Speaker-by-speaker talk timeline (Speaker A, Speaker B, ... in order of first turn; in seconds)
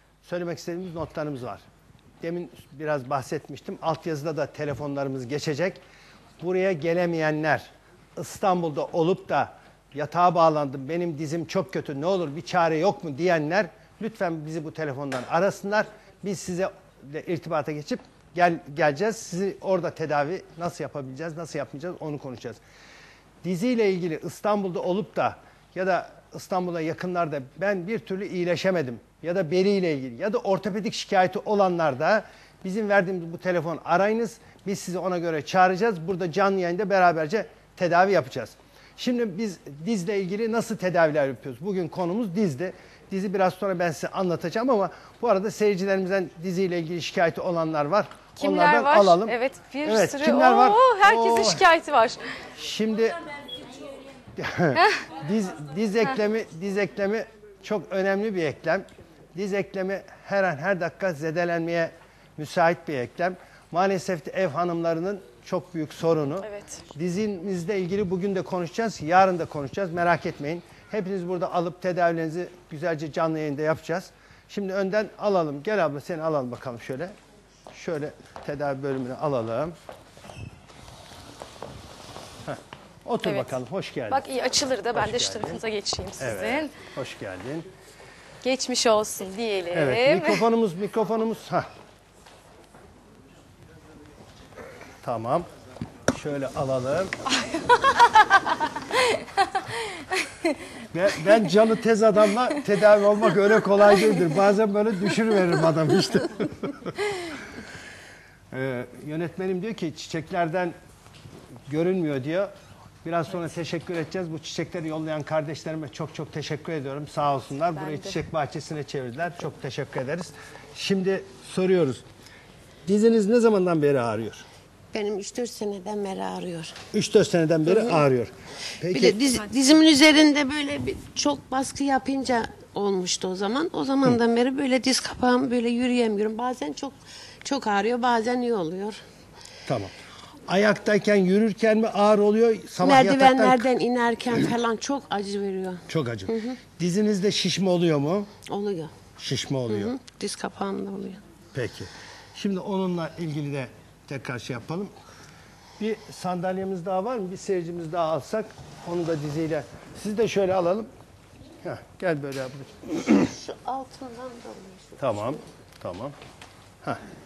Speaker A: 0.2-1.6, 2.2-5.8, 6.4-22.6, 23.4-51.7, 52.5-53.2, 54.4-77.1, 77.7-79.7, 82.5-84.3, 84.9-85.6, 86.2-87.7, 89.7-91.7, 95.0-95.5, 96.1-97.1, 100.9-107.0, 108.5-110.8, 111.7-112.5, 113.0-122.0, 122.9-124.4, 126.9-129.2, 139.7-139.9, 140.5-143.7, 145.9-148.3, 149.2-149.9, 151.5-154.9, 155.8-160.9, 161.6-163.3, 165.0-166.1
Speaker B: 48.4-52.2, 66.4-66.8, 83.2-83.5, 84.1-86.7, 88.4-90.5
Speaker C: 124.9-126.8, 128.9-139.0, 142.8-146.6, 148.5-148.9, 149.7-151.2, 163.2-165.1